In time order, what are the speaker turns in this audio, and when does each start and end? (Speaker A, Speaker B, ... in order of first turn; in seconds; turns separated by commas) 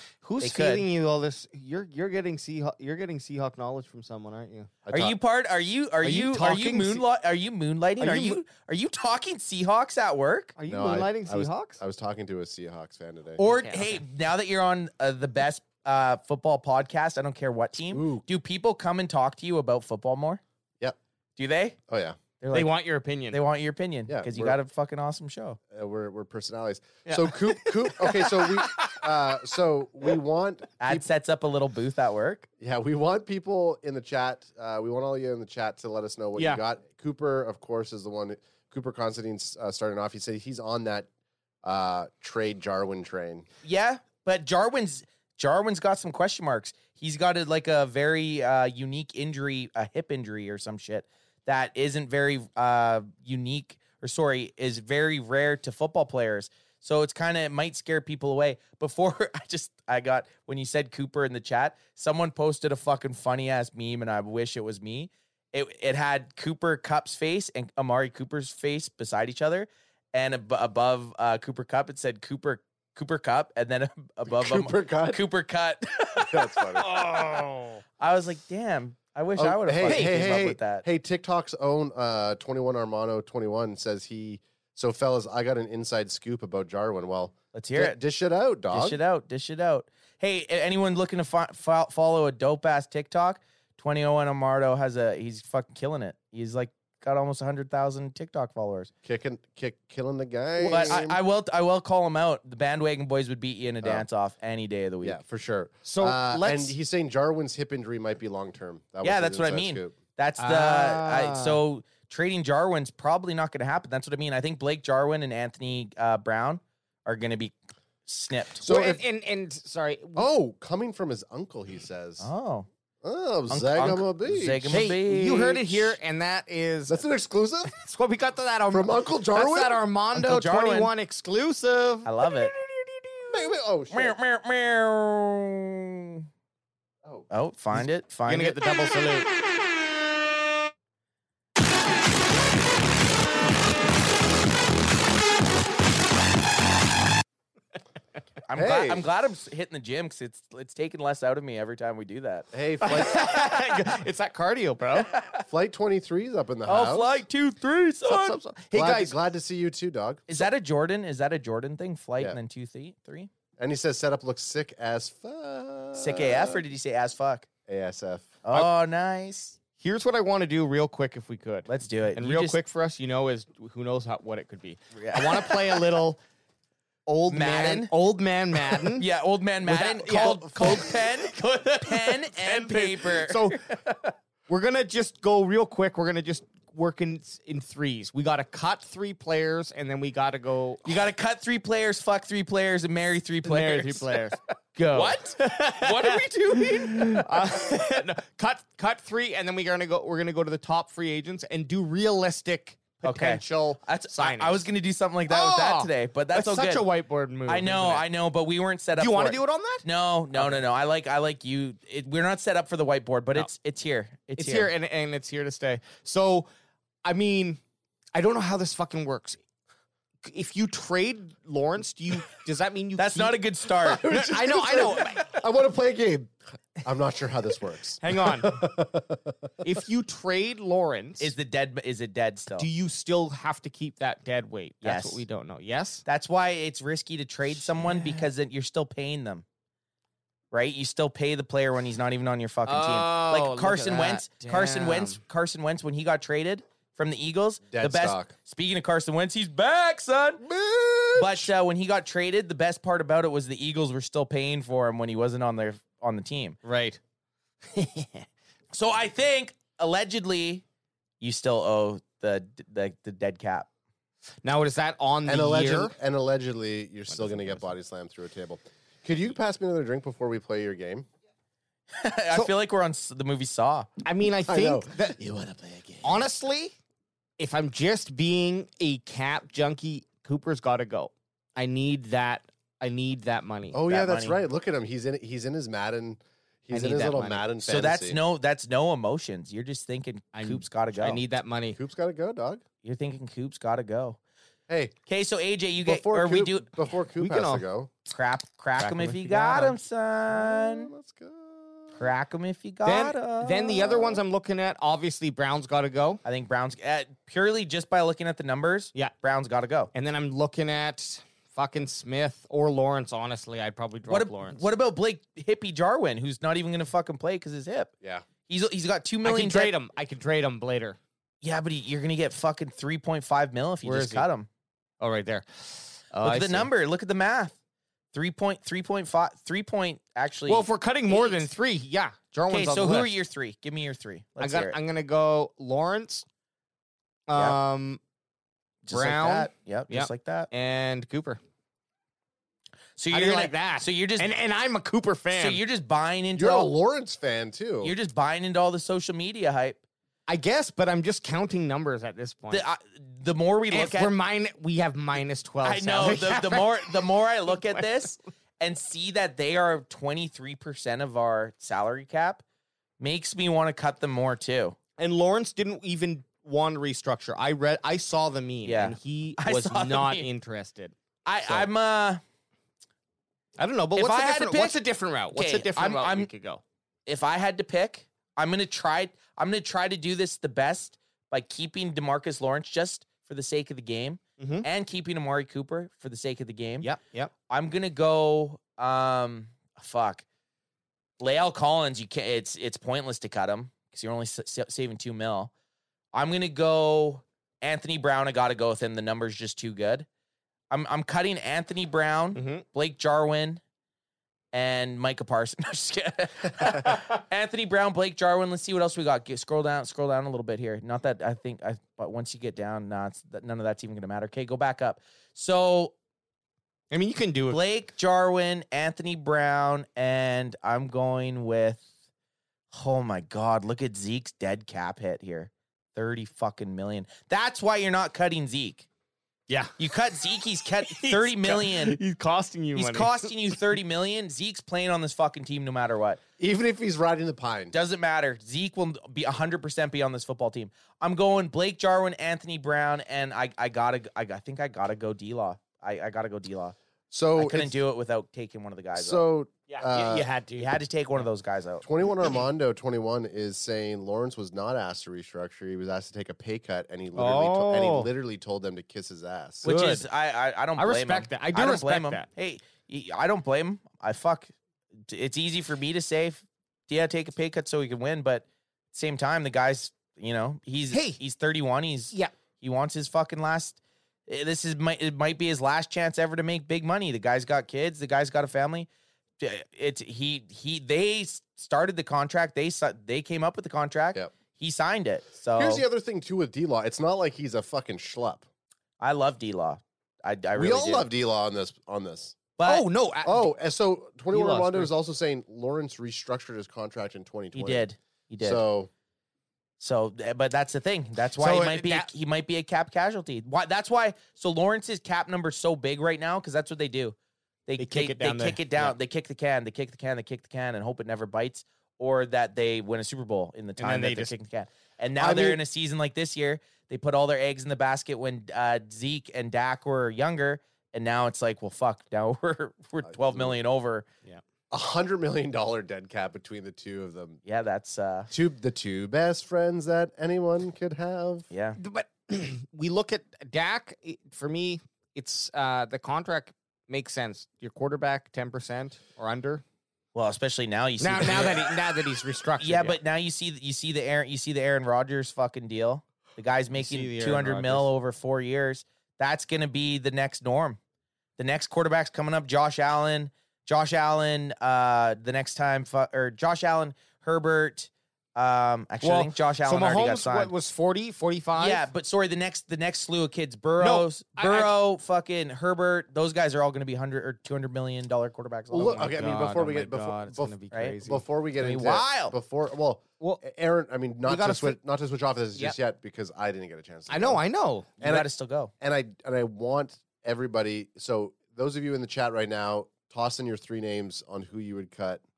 Speaker A: 0.2-4.7, Speaker B: 0.4-0.9, Speaker C: 4.8-5.2, Speaker B: 4.9-10.5, Speaker A: 6.0-7.0, Speaker A: 8.0-8.4, Speaker A: 10.6-11.8, Speaker C: 10.7-13.4, Speaker B: 13.4-20.4, Speaker A: 13.4-14.0, Speaker C: 17.9-18.2, Speaker B: 21.4-21.8, Speaker C: 21.9-22.2, Speaker B: 22.4-22.8, Speaker A: 22.5-23.4, Speaker B: 23.3-25.6, Speaker C: 24.1-24.6, Speaker C: 25.7-31.1, Speaker A: 27.1-28.3, Speaker B: 30.8-32.5, Speaker C: 32.6-41.1, Speaker A: 36.4-36.6, Speaker C: 41.6-43.5, Speaker B: 43.6-76.6, Speaker C: 74.2-75.2, Speaker C: 76.2-77.0, Speaker A: 76.8-77.8, Speaker B: 78.0-80.9, Speaker C: 79.4-89.0, Speaker A: 79.9-80.3, Speaker B: 87.5-88.0, Speaker B: 88.7-98.9, Speaker C: 99.0-101.2, Speaker A: 100.6-101.0, Speaker B: 100.7-105.2, Speaker C: 105.0-110.0, Speaker A: 105.8-106.8, Speaker B: 109.0-117.5, Speaker A: 110.4-111.6, Speaker B: 118.1-118.6, Speaker C: 118.6-119.0, Speaker A: 118.6-120.3, Speaker C: 120.2-122.3, Speaker B: 122.2-122.7, Speaker C: 123.0-124.8, Speaker B: 123.5-125.9, Speaker A: 124.7-127.0, Speaker C: 126.9-127.7, Speaker A: 127.7-133.3, Speaker C: 128.7-129.8, Speaker B: 130.1-130.9, Speaker B: 132.0-132.5, Speaker C: 133.3-134.2, Speaker B: 133.9-136.3, Speaker B: 137.3-138.6, Speaker A: 137.7-139.3, Speaker B: 148.5-152.5, Speaker C: 148.6-149.1, Speaker C: 152.5-153.2, Speaker A: 152.8-155.1, Speaker B: 155.1-155.4, Speaker C: 155.5-157.1, Speaker B: 156.7-158.4, Speaker A: 158.1-159.2, Speaker C: 158.7-160.5, Speaker B: 160.3-163.3, Speaker C: 163.6-166.6, Speaker B: 166.0-167.5, Speaker C: 167.7-168.4, Speaker B: 168.4-169.6, Speaker A: 169.8-176.2, Speaker B: 171.7-172.6, Speaker B: 174.9-175.8, Speaker A: 177.1-179.1, Speaker B: 177.3-177.9, Speaker B: 178.7-184.1, Speaker A: 179.7-181.1, Speaker A: 181.8-183.6, Speaker A: 184.5-190.9, Speaker B: 190.8-194.2, Speaker A: 193.4-204.6, Speaker B: 194.9-197.5, Speaker B: 203.0-206.9, Speaker A: 205.3-208.1, Speaker B: 207.5-214.7, Speaker A: 209.0-210.6, Speaker A: 214.4-216.5, Speaker A: 217.1-217.6, Speaker A: 218.2-219.4, Speaker A: 220.2-223.4, Speaker B: 223.0-224.1, Speaker C: 223.8-229.5, Speaker A: 224.0-225.4, Speaker A: 228.0-228.6, Speaker A: 229.6-231.3, Speaker B: 231.2-232.7, Speaker A: 232.6-236.1, Speaker B: 234.8-235.2, Speaker B: 236.1-239.4, Speaker A: 237.5-238.3, Speaker B: 240.5-250.4, Speaker A: 242.7-245.2, Speaker C: 247.7-248.3, Speaker C: 250.4-251.5, Speaker B: 251.2-256.6, Speaker A: 256.6-257.0, Speaker A: 257.7-258.3, Speaker B: 258.7-260.6, Speaker B: 261.2-263.7, Speaker A: 264.4-265.9, Speaker C: 265.3-271.1, Speaker A: 267.1-267.7, Speaker B: 272.0-273.9, Speaker A: 274.1-275.2, Speaker C: 274.4-276.3, Speaker A: 276.0-276.7, Speaker A: 277.4-283.8, Speaker C: 283.7-288.2, Speaker B: 283.9-284.4, Speaker A: 286.7-287.4, Speaker B: 287.7-291.2, Speaker A: 290.3-291.8, Speaker C: 291.8-292.6, Speaker B: 292.8-294.2, Speaker C: 294.7-294.9, Speaker B: 295.1-296.7, Speaker C: 295.8-297.9, Speaker A: 297.2-297.6, Speaker B: 298.1-300.9, Speaker A: 298.8-299.8, Speaker C: 300.3-302.0, Speaker B: 302.0-304.2, Speaker A: 302.9-306.2, Speaker B: 306.2-309.9, Speaker A: 309.9-314.6, Speaker B: 314.1-317.9, Speaker B: 318.5-319.7, Speaker A: 319.2-321.0, Speaker B: 321.4-324.5, Speaker A: 323.8-324.3, Speaker A: 325.0-326.7, Speaker B: 326.2-327.6, Speaker B: 328.1-331.5, Speaker A: 330.5-333.1, Speaker B: 332.5-334.8, Speaker A: 334.4-336.2, Speaker A: 337.3-338.0, Speaker B: 338.8-340.5, Speaker A: 338.9-341.4, Speaker B: 343.0-344.3, Speaker A: 343.1-345.6, Speaker B: 345.3-346.7, Speaker C: 346.4-347.9, Speaker B: 347.8-349.8, Speaker A: 350.3-352.7, Speaker B: 352.5-354.1, Speaker A: 353.7-358.1, Speaker B: 355.6-362.4, Speaker B: 363.0-364.8, Speaker A: 365.0-370.9, Speaker B: 368.7-370.3, Speaker B: 371.2-372.2, Speaker A: 373.6-376.6, Speaker B: 374.0-374.8, Speaker B: 375.3-376.3, Speaker B: 377.1-386.9, Speaker A: 384.4-384.7, Speaker A: 386.8-387.3, Speaker B: 387.5-390.2, Speaker B: 391.2-395.5, Speaker B: 396.1-400.1, Speaker B: 400.7-403.6, Speaker A: 402.3-402.6, Speaker B: 404.5-415.9, Speaker A: 416.9-417.6, Speaker B: 417.5-421.9, Speaker B: 422.7-428.9, Speaker A: 429.5-429.7, Speaker B: 429.8-432.0, Speaker A: 430.9-433.3, Speaker B: 432.8-436.2, Speaker C: 436.4-437.7, Speaker B: 437.7-446.8, Speaker C: 447.1-447.8, Speaker B: 447.4-449.2, Speaker C: 449.0-450.3, Speaker A: 449.7-450.8, Speaker B: 450.6-451.9, Speaker C: 451.8-459.7, Speaker A: 457.2-458.1, Speaker A: 459.6-460.1, Speaker B: 459.6-464.5, Speaker A: 460.8-462.3, Speaker B: 465.1-478.9, Speaker A: 470.9-471.2, Speaker B: 479.4-485.8, Speaker C: 485.6-488.4, Speaker B: 489.0-491.1, Speaker C: 490.6-492.4, Speaker B: 492.6-492.9, Speaker A: 492.7-493.5, Speaker C: 493.2-497.9, Speaker A: 494.3-494.9, Speaker B: 497.6-498.6, Speaker C: 498.4-498.9, Speaker B: 499.8-507.2, Speaker A: 501.4-502.1, Speaker B: 507.7-524.1, Speaker A: 507.8-508.9, Speaker A: 513.8-514.3, Speaker C: 515.2-515.6, Speaker C: 523.1-523.6, Speaker C: 524.7-527.4, Speaker B: 527.5-528.3, Speaker C: 528.3-531.5, Speaker B: 531.5-531.8, Speaker A: 531.8-539.6, Speaker B: 540.1-541.8, Speaker A: 541.0-543.0, Speaker B: 542.6-550.8, Speaker A: 546.7-547.9, Speaker B: 551.4-560.5, Speaker A: 559.0-561.9, Speaker B: 561.6-569.1, Speaker A: 563.8-564.7, Speaker C: 568.7-577.4, Speaker A: 568.7-571.2, Speaker B: 570.7-571.0, Speaker B: 571.6-572.4, Speaker A: 574.3-574.8, Speaker A: 577.1-577.9, Speaker B: 578.0-578.7, Speaker C: 578.0-585.2